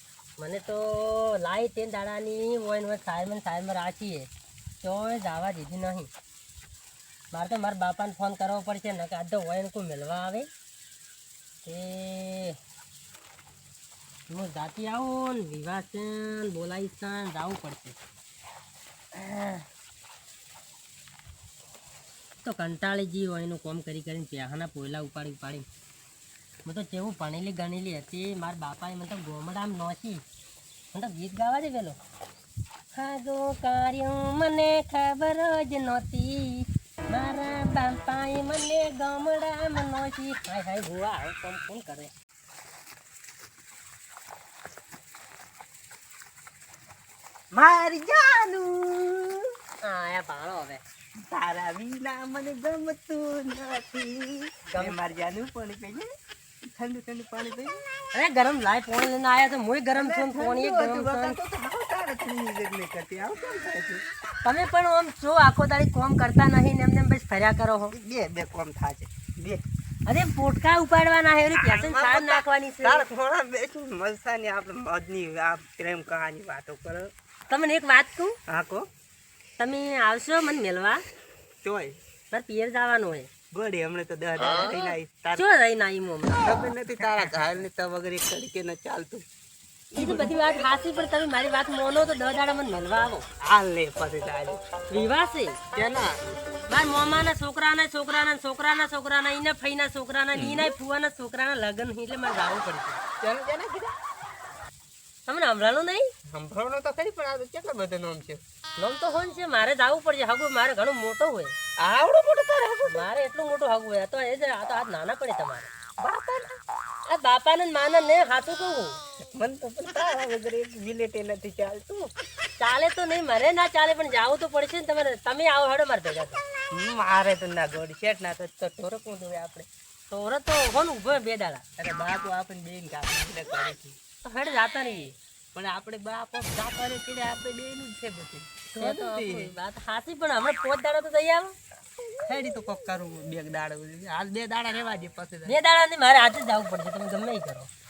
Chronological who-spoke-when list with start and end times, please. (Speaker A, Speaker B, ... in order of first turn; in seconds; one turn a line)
Speaker A: 0.4-4.3
Speaker A: 4.8-6.1
Speaker A: 7.3-10.5
Speaker A: 11.7-12.6
Speaker A: 14.3-18.0
Speaker A: 19.2-19.6
Speaker A: 22.4-25.7
Speaker A: 26.6-30.2
Speaker A: 30.9-32.0
Speaker A: 32.9-42.1
Speaker B: 47.5-49.5
Speaker A: 49.8-50.8
Speaker B: 51.3-56.1
Speaker A: 54.7-55.0
Speaker B: 56.7-57.8
Speaker A: 58.1-61.4
Speaker B: 60.0-64.0
Speaker A: 64.4-68.0
Speaker B: 67.9-69.6
Speaker A: 70.1-73.0
Speaker B: 71.5-77.1
Speaker A: 77.5-78.3
Speaker B: 78.5-78.8
Speaker A: 79.6-81.0
Speaker B: 81.6-82.0
Speaker A: 82.3-83.3
Speaker B: 83.5-85.5
Speaker A: 85.3-86.6
Speaker B: 86.3-89.2
Speaker B: 89.9-90.4
Speaker A: 90.0-93.3
Speaker B: 93.5-94.6
Speaker A: 94.9-95.6
Speaker B: 95.7-96.2
Speaker A: 96.7-103.0
Speaker B: 100.3-100.7
Speaker B: 103.2-104.0
Speaker A: 105.3-106.1
Speaker B: 106.3-108.4
Speaker A: 108.8-111.6
Speaker B: 111.8-113.0
Speaker A: 112.9-115.7
Speaker B: 116.0-116.5
Speaker A: 117.1-119.0
Speaker B: 119.3-122.1
Speaker A: 122.6-126.4
Speaker B: 126.7-129.7
Speaker A: 130.1-131.6
Speaker B: 131.8-134.0
Speaker A: 134.2-135.1
Speaker B: 135.5-139.5
Speaker A: 138.8-141.5
Speaker B: 142.2-145.6
Speaker A: 145.5-147.7